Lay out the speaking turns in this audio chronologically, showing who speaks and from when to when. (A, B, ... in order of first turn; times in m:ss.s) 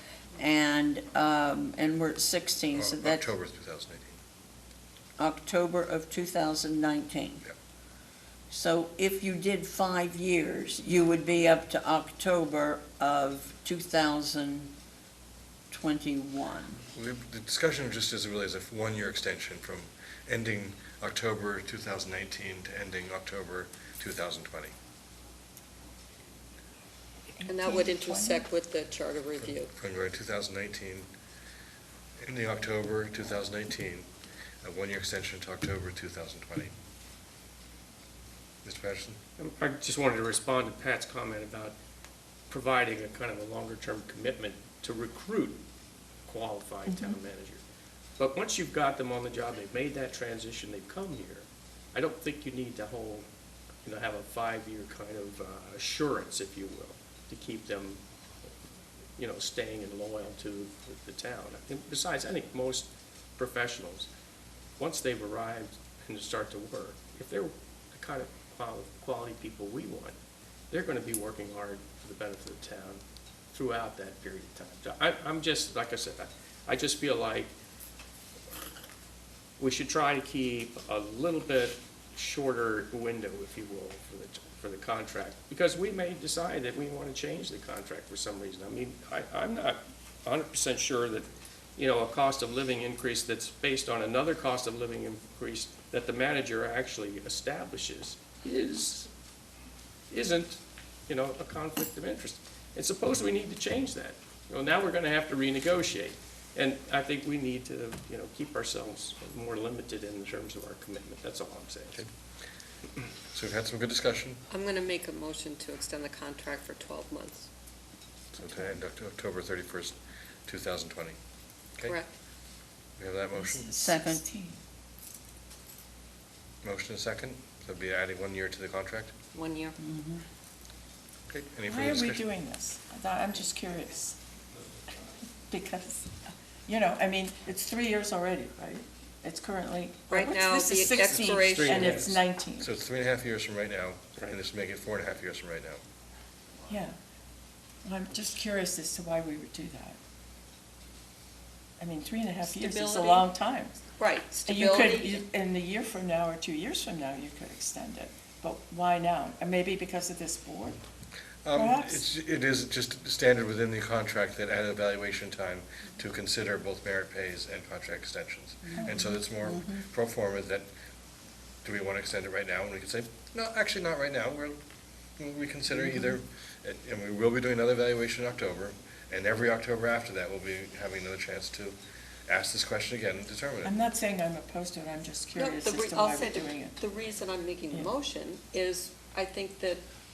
0:00.4-0:03.3 A
0:02.7-0:04.2 B
0:05.2-0:07.4 A
0:08.5-0:14.7 A
0:15.7-0:16.8 A
0:16.9-0:24.7 B
0:27.4-0:28.4 C
0:27.5-0:29.7 D
0:29.8-0:31.1 B
0:32.2-0:34.1 B
0:34.6-0:36.7 B
0:38.6-0:39.2 B
0:39.4-0:41.7 E
0:42.5-0:45.6 E
0:46.3-0:47.6 E
0:46.9-0:47.2 C
0:48.2-0:53.3 E
0:53.8-0:58.0 E
0:59.2-1:04.1 E
1:04.8-1:10.2 E
1:10.7-1:13.0 E
1:13.5-1:17.5 E
1:19.6-1:39.1 E
1:40.1-1:52.0 E
1:53.3-1:54.4 B
1:54.5-1:57.5 D
1:58.3-2:01.2 B
1:58.4-1:58.7 C
2:03.0-2:03.7 B
2:03.4-2:04.6 C
2:03.8-2:04.2 A
2:06.6-2:09.2 B
2:09.3-2:09.8 D
2:09.8-2:10.2 A
2:11.3-2:12.2 B
2:11.7-2:14.2 C
2:15.4-2:22.7 C
2:20.1-2:22.0 D
2:21.5-2:22.2 E
2:22.6-2:25.8 B
2:26.7-2:27.0 C
2:27.8-2:30.0 C
2:31.8-2:33.8 C
2:32.4-2:33.3 D
2:34.0-2:35.2 D
2:34.4-2:40.8 C
2:41.4-2:50.7 B
2:41.5-2:42.0 C
2:48.7-2:49.8 A
2:48.8-2:49.1 C
2:51.6-2:54.6 B
2:55.2-3:01.8 B
2:55.8-2:56.1 A
3:02.3-3:03.8 B
3:03.6-3:06.8 C
3:05.4-3:09.8 D